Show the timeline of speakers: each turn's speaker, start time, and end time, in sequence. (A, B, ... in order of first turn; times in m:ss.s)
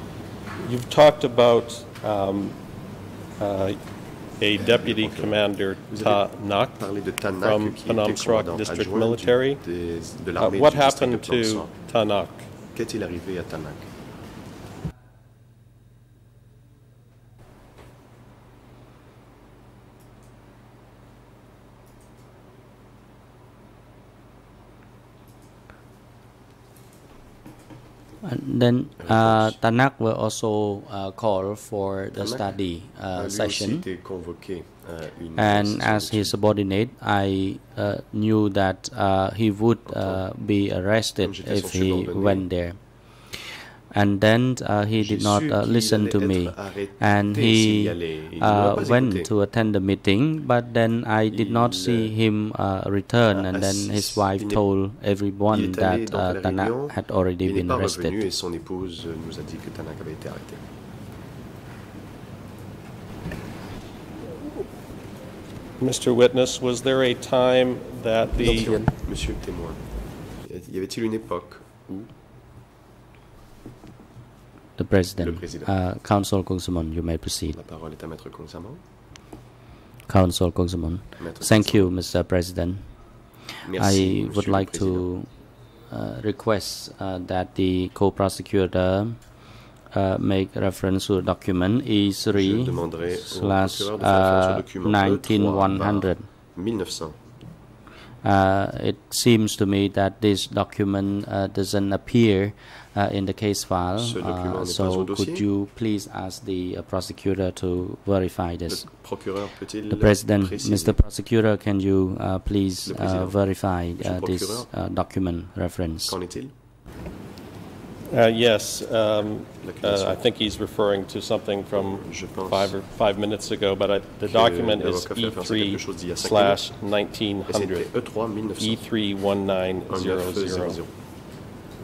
0:00.6-0:02.6 A
0:03.4-0:03.8 A
0:04.4-0:06.8 A
0:04.5-0:11.8 B
0:07.3-0:09.6 A
0:10.4-0:12.5 A
0:12.7-0:13.9 B
0:28.2-0:33.8 C
0:29.0-0:29.6 B
0:32.1-0:36.4 B
0:35.4-0:58.3 C
0:39.9-0:40.3 B
0:41.2-0:42.5 B
0:45.0-0:49.3 B
0:51.3-0:52.2 B
0:53.3-0:54.6 B
0:55.5-1:00.6 B
1:05.8-1:08.8 A
1:08.4-1:09.8 B
1:10.4-1:12.1 B
1:14.8-1:17.6 C
1:15.2-1:15.8 B
1:17.5-1:18.8 B
1:20.1-1:22.9 C
1:21.2-1:22.0 B
1:23.6-1:25.1 B
1:23.7-1:25.3 C
1:25.9-1:36.3 C
1:32.3-1:37.2 B
1:38.2-1:48.9 C
1:44.0-1:45.5 B
1:48.7-1:51.0 B
1:49.9-1:56.2 C
1:52.8-1:54.7 B
1:56.1-1:56.5 B
1:58.1-2:07.9 A
1:59.6-2:00.3 B
2:01.7-2:02.8 B
2:04.2-2:06.6 B
2:07.5-2:08.8 B
2:08.6-2:10.8 A
2:09.9-2:10.9 B